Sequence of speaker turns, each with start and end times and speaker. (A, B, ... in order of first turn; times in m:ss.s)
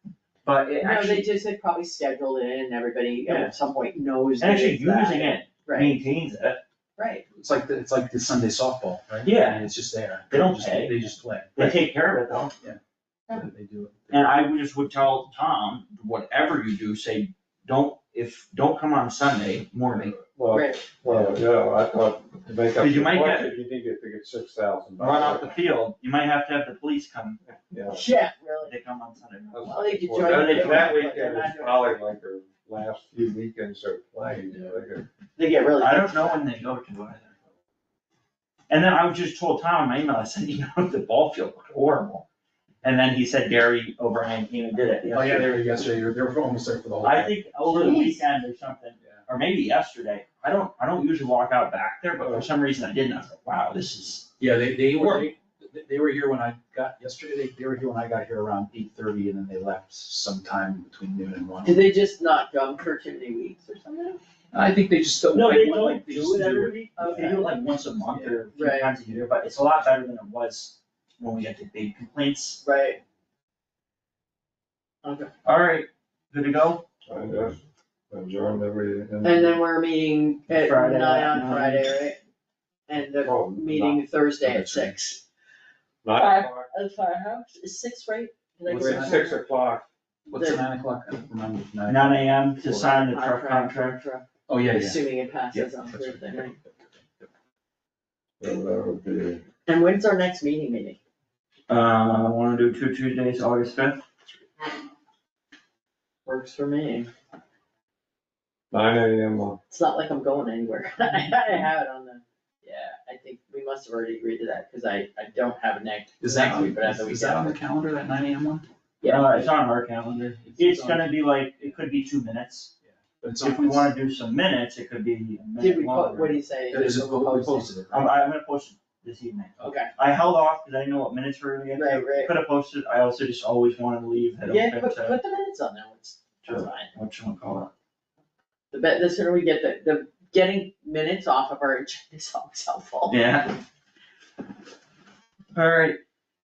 0:00.4-0:01.3 A
0:00.8-0:06.0 B
0:03.2-0:03.5 A
0:04.4-0:06.6 A
0:07.0-0:07.2 B
0:07.4-0:11.8 C
0:09.2-0:09.6 A
0:10.3-0:11.0 A
0:11.6-0:12.5 A
0:12.6-0:14.2 C
0:14.1-0:20.2 A
0:20.2-0:25.6 D
0:20.5-0:20.9 B
0:21.1-0:21.3 A
0:22.8-0:23.6 A
0:25.0-0:27.4 A
0:27.6-0:28.0 D
0:27.9-0:28.7 B
0:28.6-0:31.2 A
0:29.5-0:35.1 D
0:29.6-0:32.0 B
0:34.5-0:34.8 B
0:35.4-0:37.3 A
0:35.5-0:36.4 B
0:38.7-0:42.2 A
0:42.8-0:45.5 A
0:45.1-0:48.0 C
0:47.0-0:54.3 A
0:47.8-0:48.2 B
0:54.4-1:01.9 C
0:55.0-0:55.3 A
1:01.6-1:04.2 B
1:04.5-1:07.4 C
1:05.3-1:12.6 A
1:07.0-1:07.6 B
1:08.1-1:08.4 C
1:08.5-1:08.9 B
1:12.6-1:13.0 B
1:15.0-1:15.3 B
1:15.4-1:16.8 A
1:17.0-1:17.6 D
1:18.1-1:19.6 D
1:19.2-1:22.2 B
1:20.5-1:21.9 A
1:22.9-1:25.2 B
1:23.2-1:24.0 D
1:24.4-1:25.2 C
1:26.0-1:26.7 D
1:26.1-1:29.4 B
1:28.6-1:29.3 C
1:28.7-1:29.8 D
1:30.3-1:32.4 C
1:30.3-1:30.6 B
1:31.8-1:34.0 A
1:32.6-1:36.6 B
1:34.5-1:36.4 C
1:38.4-1:39.4 D
1:39.6-1:41.0 B
1:41.7-1:44.0 A
1:46.2-1:47.1 B
1:48.7-1:49.6 D
1:49.7-1:57.5 B
1:56.2-1:58.6 C
1:59.0-1:59.4 B
1:59.0-2:02.7 A
2:00.4-2:01.4 C
2:02.9-2:03.9 C
2:03.4-2:06.4 A
2:05.6-2:08.0 B
2:06.7-2:08.0 C
2:07.9-2:15.2 A
2:09.6-2:09.8 C
2:09.6-2:09.9 B
2:11.8-2:12.3 B
2:14.4-2:16.9 B
2:16.4-2:17.7 A
2:18.7-2:23.2 B
2:23.1-2:23.6 A
2:25.5-2:26.0 A